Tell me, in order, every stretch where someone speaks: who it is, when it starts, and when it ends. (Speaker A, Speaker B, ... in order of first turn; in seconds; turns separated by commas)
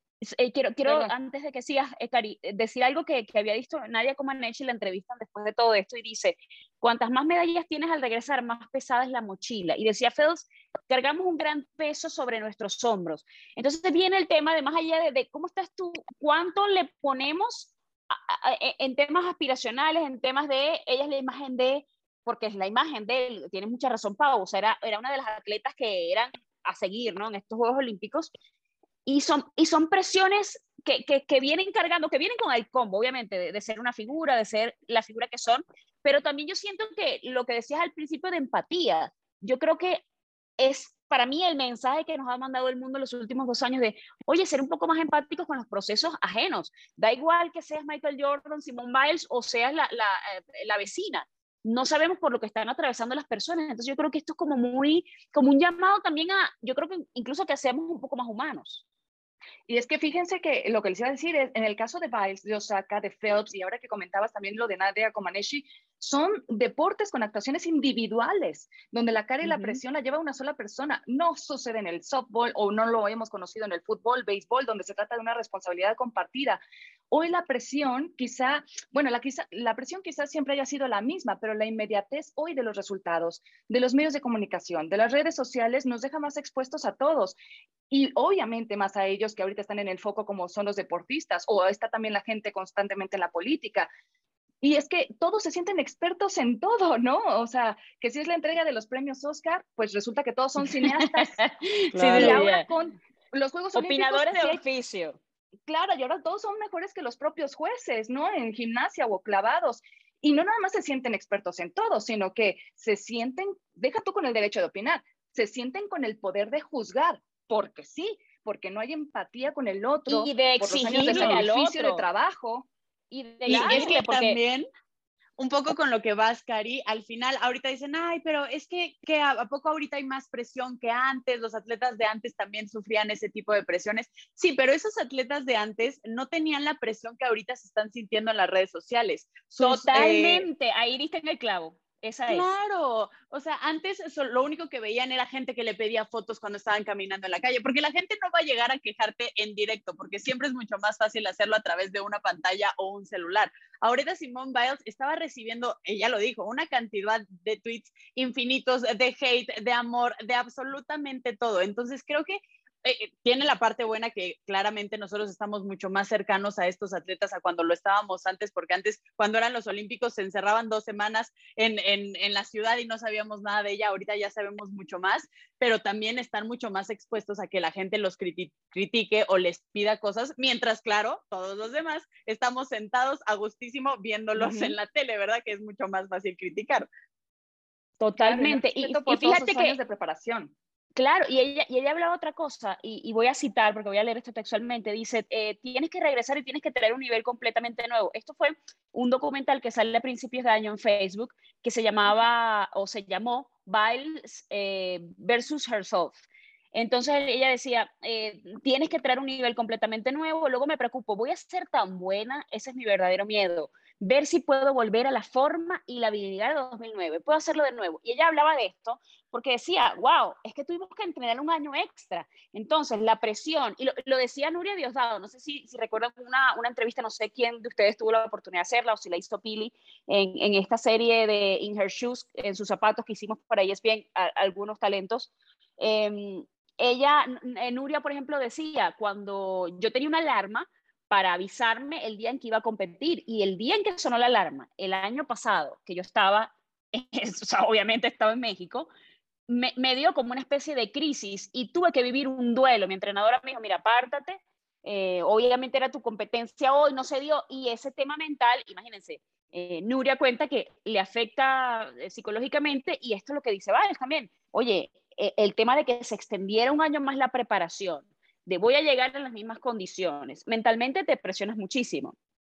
Speaker A: 0.2-28.3, Speaker B: 0.8-1.1, Speaker A: 29.1-40.0, Speaker A: 40.6-58.8, Speaker B: 59.7-76.6, Speaker B: 77.1-87.4, Speaker B: 87.9-93.9, Speaker B: 94.6-101.4, Speaker A: 100.7-102.7, Speaker C: 101.9-102.4, Speaker B: 102.0-104.6, Speaker A: 103.7-105.2, Speaker B: 105.7-122.7, Speaker A: 120.1-122.1, Speaker C: 121.0-121.5, Speaker A: 123.1-124.4, Speaker C: 123.5-124.7, Speaker B: 123.5-124.0, Speaker C: 125.4-140.5, Speaker A: 139.6-142.5, Speaker C: 142.3-186.9, Speaker A: 184.4-184.7, Speaker A: 188.0-189.8, Speaker B: 188.2-190.5, Speaker A: 191.0-248.9, Speaker A: 249.5-272.1